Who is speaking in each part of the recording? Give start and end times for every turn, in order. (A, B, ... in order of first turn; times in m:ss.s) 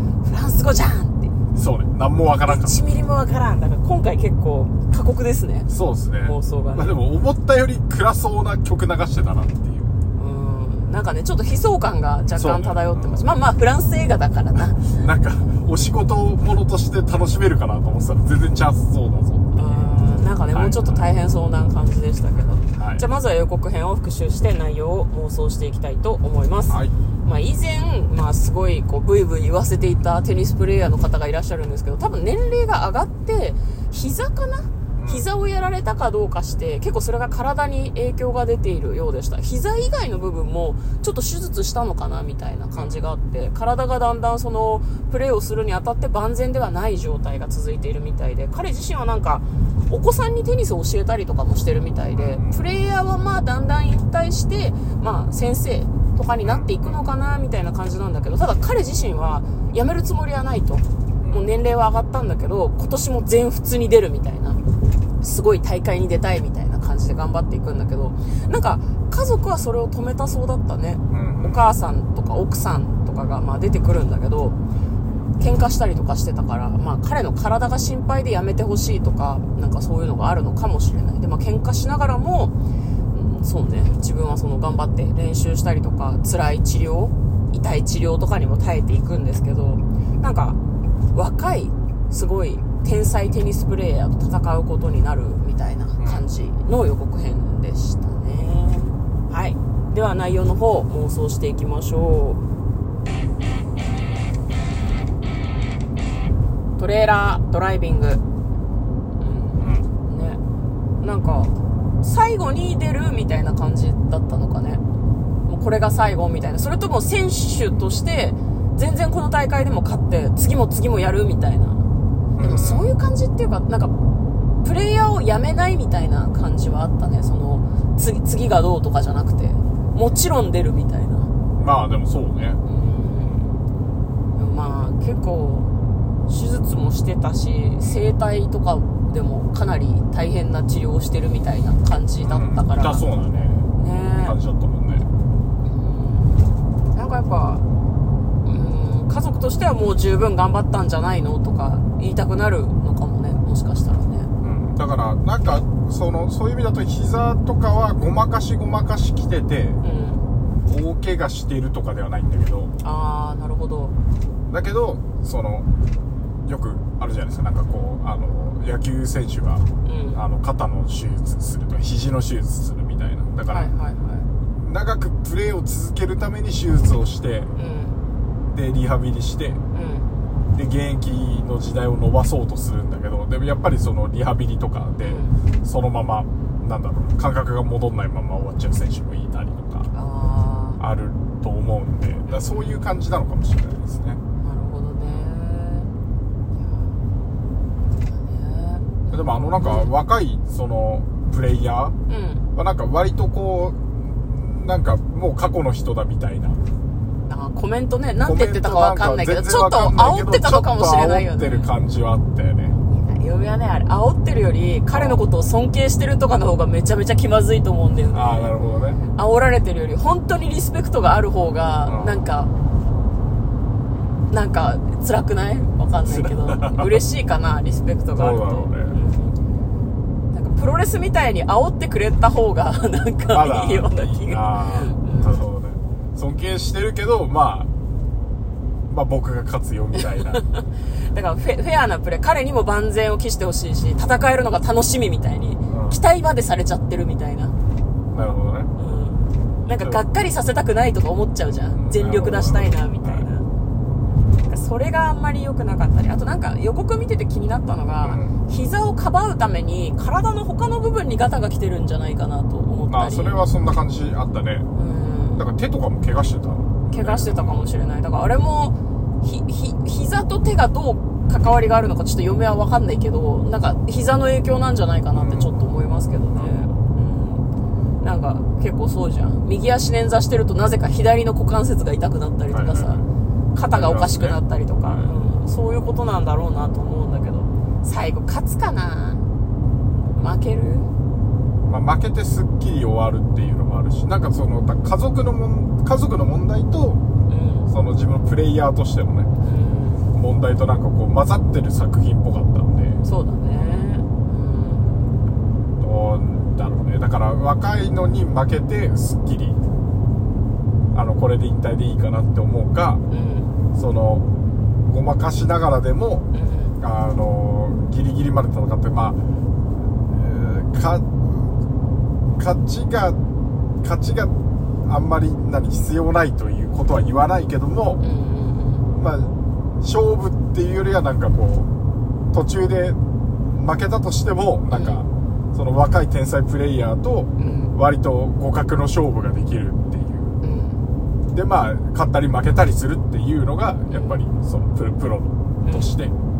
0:00.2-0:01.3 A
0:01.5-0:02.8 B
0:02.4-0:05.7 A
0:05.7-0:09.9 B
0:06.2-0:07.0 A
0:10.2-0:15.0 A
0:12.3-0:13.3 B
0:14.8-0:21.1 B
0:19.5-1:04.6 A
0:22.7-0:23.0 B
0:26.7-0:26.9 B
0:35.0-0:35.2 B
0:42.7-0:43.0 B
0:52.1-0:52.6 B
0:56.4-0:57.0 B
1:05.2-1:14.6 A
1:11.1-1:11.6 B
1:15.4-1:22.5 A
1:23.1-1:30.6 A
1:31.1-1:42.4 A
1:36.0-1:36.2 B
1:46.8-1:48.2 A
1:49.2-1:50.4 A
1:49.6-1:49.9 B
1:51.0-1:54.8 A
1:55.4-2:01.8 A
2:02.4-2:02.9 B
2:02.4-2:03.9 A
2:04.6-2:11.3 A
2:11.6-2:12.6 B
2:12.6-2:13.5 A
2:14.3-2:15.7 A
2:16.3-2:23.0 A
2:22.2-2:23.7 B
2:23.8-2:24.4 A
2:24.2-2:25.1 B
2:25.6-2:27.6 A
2:28.4-2:34.3 A
2:34.4-2:39.8 B
2:39.8-2:40.2 A
2:40.6-2:42.7 B
2:42.8-2:43.9 A
2:44.5-2:45.7 B
2:46.4-2:53.7 B
2:49.8-2:50.2 A
2:53.5-2:54.3 A
2:54.6-2:57.5 B
2:57.6-2:58.0 A
2:58.5-2:59.6 B
2:59.7-3:00.1 A
3:00.5-3:09.9 B
3:05.0-3:05.4 A
3:09.9-3:10.8 A
3:10.8-3:14.2 B
3:12.3-3:12.8 A
3:14.4-3:15.9 A
3:16.5-3:17.0 A
3:18.0-3:19.9 A
3:19.1-3:22.0 B
3:22.1-3:22.4 A
3:22.5-3:26.6 B
3:27.2-3:31.7 A
3:28.2-3:32.8 B
3:32.9-3:38.5 A
3:34.9-3:35.2 B
3:38.1-3:39.0 B
3:39.1-3:42.5 A
3:41.8-3:42.2 B
3:44.3-3:49.4 A
3:46.1-3:47.0 B
3:48.1-3:49.0 B
3:50.3-3:55.4 A
3:53.3-3:57.7 B
3:58.9-4:00.4 B
4:00.3-4:07.5 A
4:05.7-4:06.0 B
4:08.1-4:08.7 B
4:08.8-4:13.5 A
4:09.7-4:10.0 B
4:11.7-4:13.3 B
4:14.5-4:23.4 A
4:18.0-4:18.4 B
4:22.9-4:24.7 B
4:24.8-4:25.4 A
4:25.4-4:27.7 B
4:26.9-4:37.4 A
4:35.1-4:35.7 B
4:36.3-4:36.7 B
4:38.0-4:43.0 A
4:42.5-4:43.1 B
4:43.5-4:49.2 A
4:43.7-4:45.1 B
4:50.1-4:50.9 A
4:51.7-4:57.0 B
4:57.3-4:57.7 A
4:57.7-4:59.3 B
4:59.4-5:00.0 A
5:00.1-5:03.0 B
5:03.0-5:05.0 A
5:05.8-5:09.6 B
5:10.9-5:13.0 B
5:13.1-5:13.5 A
5:13.7-5:14.2 B
5:14.8-5:16.3 B
5:16.3-5:16.8 A
5:16.8-5:19.2 B
5:20.1-5:21.6 B
5:22.4-5:23.2 B
5:23.8-5:28.0 B
5:28.0-5:28.9 A
5:29.0-5:31.7 B
5:32.3-5:33.0 B
5:33.5-5:40.4 B
5:34.7-5:35.0 A
5:37.4-5:37.7 A
5:40.4-5:40.8 A
5:41.3-5:46.1 B
5:43.9-5:44.2 A
5:45.6-5:45.9 A